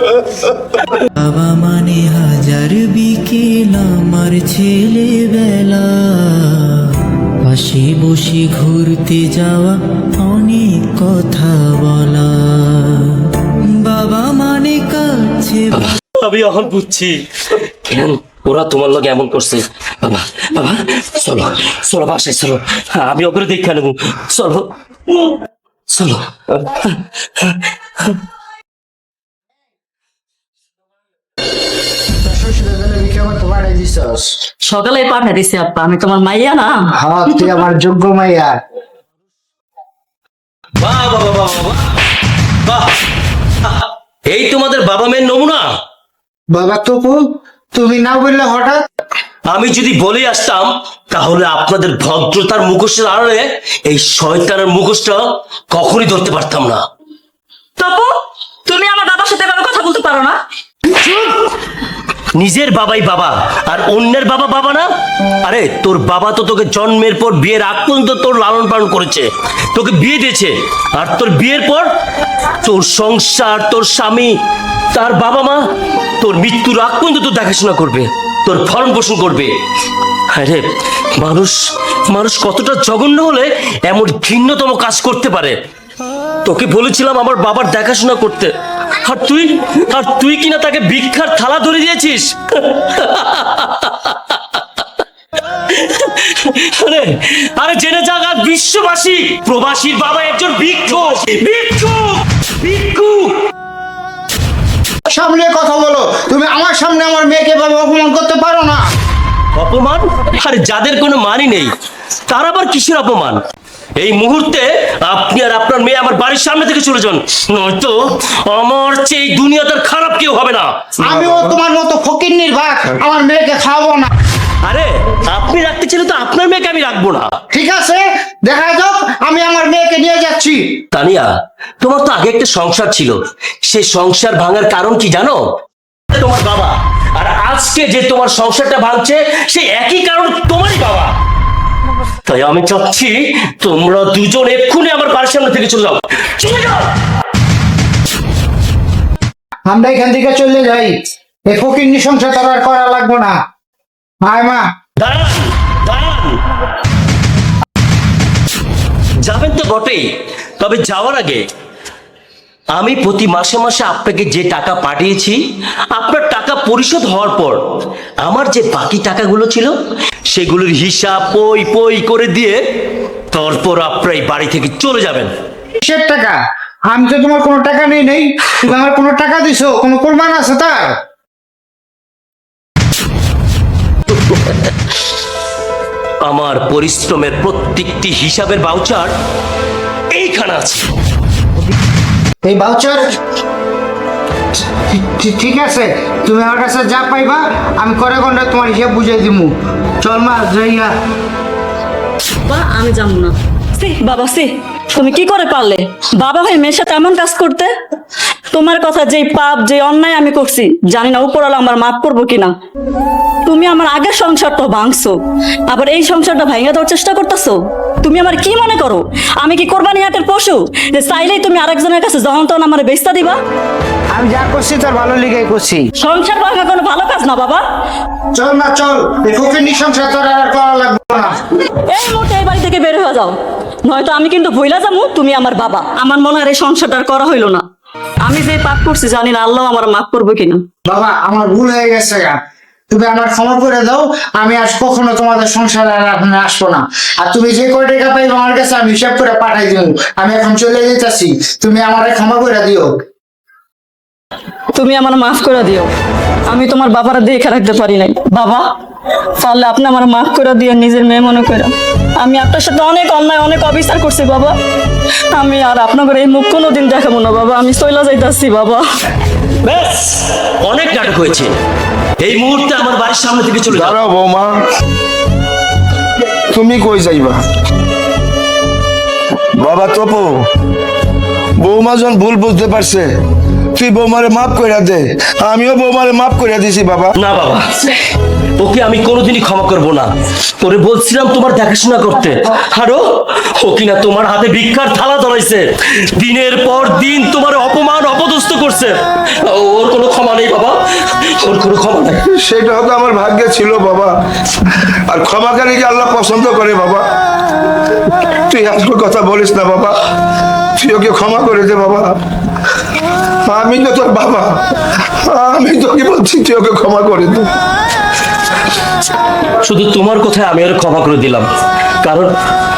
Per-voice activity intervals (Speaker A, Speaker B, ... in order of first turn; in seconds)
Speaker A: 1.1-15.9
Speaker B: 15.7-28.1, 40.8-41.8, 42.6-42.9, 43.6-45.7, 49.5-56.8, 62.4-64.9, 65.5-71.9, 72.5-74.3, 74.9-75.6, 76.2-79.5, 80.3-81.6, 82.1-85.6, 86.4-94.8, 95.5-103.4, 109.5-111.7, 112.3-113.4, 114.0-120.8, 124.6-127.3, 130.9-135.4, 136.1-141.1, 142.2-146.9, 155.0-156.4, 159.2-160.0, 160.6-161.4, 162.7-165.4, 165.9-167.6, 168.2-169.7, 170.3-172.6, 173.3-175.3, 184.3-184.6, 186.2-189.1, 190.1-190.9, 269.6-271.5, 272.2-273.9, 287.1-288.0, 288.6-302.2, 319.6-321.5, 322.0-322.3
Speaker C: 32.2-34.4, 36.9-38.6, 46.5-47.2, 47.7-48.8, 105.1-108.8, 121.0-124.1, 127.5-130.6, 149.7-150.9, 151.5-153.3, 154.2-154.6, 175.8-180.9, 192.4-193.2, 194.6-200.9, 224.1-225.9, 228.3-231.4, 240.8-242.4, 242.9-252.9
Speaker D: 34.6-36.9, 57.8-58.1, 58.7-60.4, 202.5-207.7, 208.5-212.5, 213.5-215.2, 215.7-223.4, 226.0-227.6, 231.9-233.3, 233.9-237.6, 238.2-240.6, 254.7-255.9, 256.5-258.6, 259.4-264.5, 265.3-268.8
Speaker E: 121.2-121.5, 273.7-274.6, 276.5-277.4, 279.6-280.4, 281.6-283.1, 283.8-287.1, 302.3-304.1, 304.8-307.0, 308.5-309.9, 310.8-312.2, 313.5-314.5, 315.2-317.5